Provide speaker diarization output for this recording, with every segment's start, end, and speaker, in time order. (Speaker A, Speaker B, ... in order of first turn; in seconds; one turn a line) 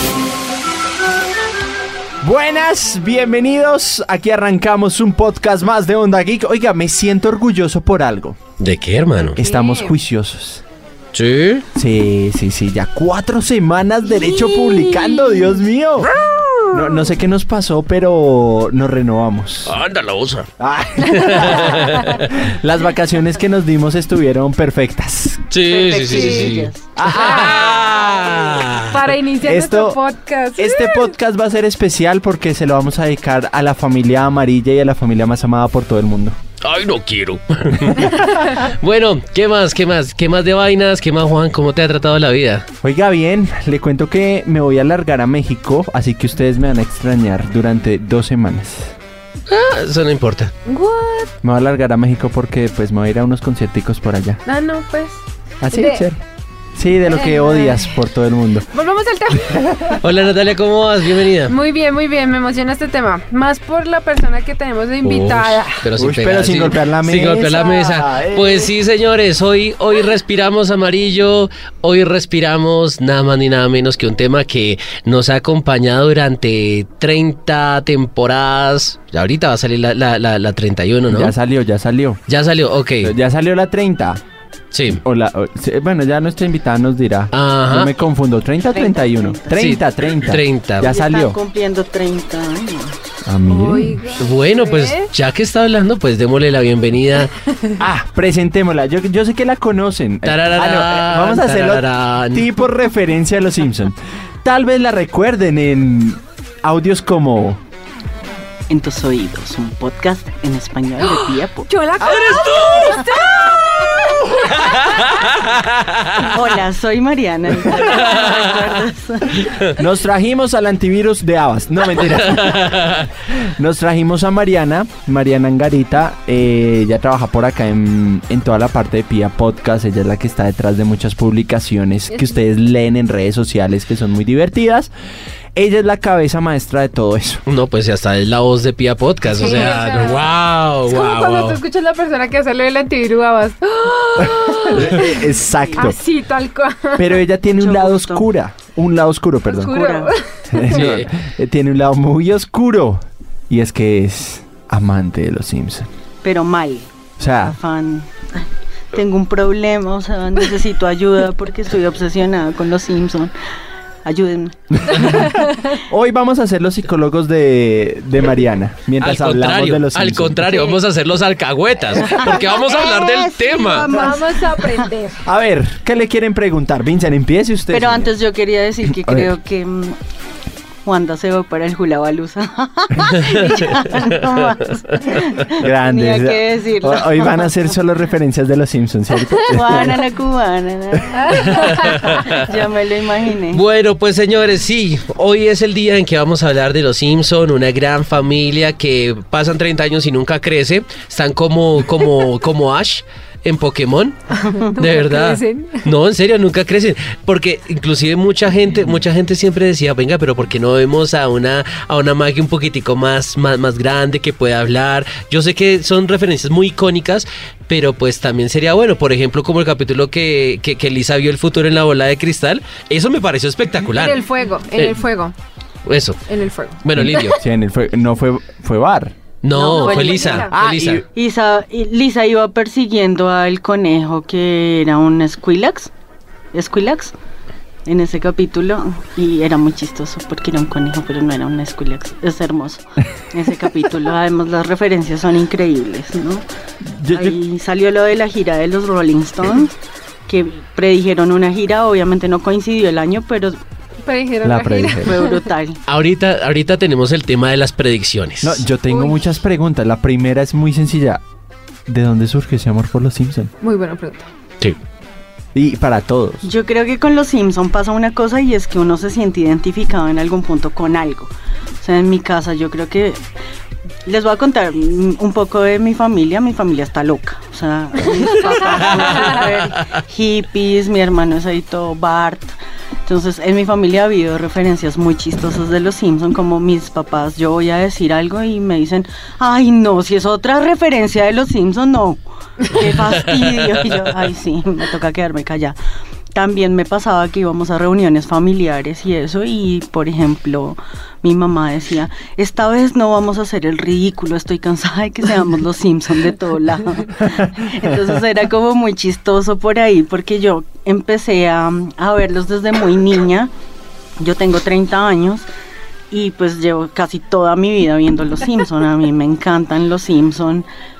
Speaker A: 2.2-8.4
Speaker B: 8.6-9.4
Speaker A: 9.3-10.6
Speaker C: 9.4-10.0
Speaker B: 11.1-11.7
Speaker A: 11.7-16.2
Speaker C: 14.3-15.6
Speaker B: 16.1-16.7
Speaker A: 16.7-19.8
Speaker B: 19.7-22.3
Speaker A: 20.6-25.5
Speaker C: 21.2-22.2
Speaker B: 25.5-29.1
Speaker D: 25.7-26.8
Speaker C: 25.9-27.7
Speaker A: 26.9-28.0
Speaker C: 28.8-31.1
Speaker A: 29.4-30.0
Speaker A: 30.6-36.4
Speaker B: 36.6-42.7
Speaker A: 42.8-49.0
Speaker B: 49.5-50.5
Speaker C: 50.7-51.3
Speaker A: 51.4-54.4
Speaker C: 54.5-55.2
Speaker A: 55.6-56.2
Speaker C: 55.7-56.0
Speaker A: 56.7-58.7
Speaker C: 57.1-57.9
Speaker C: 58.7-60.0
Speaker A: 59.3-60.0
Speaker B: 60.0-61.6
Speaker C: 61.5-65.8
Speaker B: 65.0-81.3
Speaker A: 66.0-68.7
Speaker A: 81.1-82.2
Speaker B: 82.3-83.1
Speaker A: 83.0-84.2
Speaker B: 84.7-85.0
Speaker A: 84.9-91.4
Speaker B: 87.3-87.9
Speaker D: 88.7-89.7
Speaker B: 89.5-90.9
Speaker D: 90.8-93.0
Speaker A: 93.2-94.1
Speaker C: 93.5-95.1
Speaker B: 94.2-97.3
Speaker A: 97.8-107.6
Speaker B: 100.2-102.6
Speaker D: 108.7-111.7
Speaker C: 111.7-115.1
Speaker B: 112.0-113.0
Speaker B: 114.6-116.3
Speaker D: 116.2-119.5
Speaker C: 117.9-118.3
Speaker A: 119.7-134.9
Speaker B: 122.3-123.1
Speaker A: 135.6-137.4
Speaker B: 137.5-141.6
Speaker C: 139.3-140.3
Speaker C: 140.9-147.2
Speaker A: 144.2-146.0
Speaker D: 145.5-145.9
Speaker A: 147.0-149.8
Speaker D: 147.5-148.3
Speaker C: 149.5-150.8
Speaker D: 149.5-150.1
Speaker A: 150.5-155.9
Speaker B: 150.7-151.1
Speaker D: 156.2-163.3
Speaker A: 157.2-157.6
Speaker D: 164.1-165.1
Speaker A: 164.7-170.5
Speaker C: 165.3-165.5
Speaker B: 169.0-174.0
Speaker C: 170.5-170.8
Speaker D: 172.0-174.9
Speaker C: 173.8-175.2
Speaker A: 175.2-178.2
Speaker D: 177.7-180.0
Speaker A: 178.8-179.3
Speaker D: 180.8-187.7
Speaker A: 185.5-190.1
Speaker D: 189.4-193.6
Speaker B: 191.3-192.3
Speaker B: 193.5-225.0
Speaker C: 204.4-205.9
Speaker C: 223.9-225.3
Speaker B: 225.9-226.2
Speaker C: 226.3-227.4
Speaker B: 226.8-227.4
Speaker A: 227.0-229.2
Speaker B: 229.4-231.0
Speaker D: 229.6-230.5
Speaker C: 229.6-230.5
Speaker A: 230.5-231.1
Speaker D: 231.1-235.9
Speaker D: 236.5-237.1
Speaker D: 237.9-246.4
Speaker A: 246.8-247.4
Speaker D: 247.1-249.7
Speaker D: 250.3-253.6
Speaker C: 254.0-255.5
Speaker A: 254.4-255.2
Speaker D: 255.0-255.8
Speaker B: 255.9-258.6
Speaker A: 258.4-261.2
Speaker C: 258.9-259.2
Speaker A: 261.9-263.5
Speaker C: 263.6-264.3
Speaker A: 265.5-266.5
Speaker D: 266.4-273.2
Speaker D: 274.1-295.8
Speaker B: 293.4-294.0
Speaker D: 296.3-313.5
Speaker D: 314.2-315.5
Speaker D: 316.1-320.7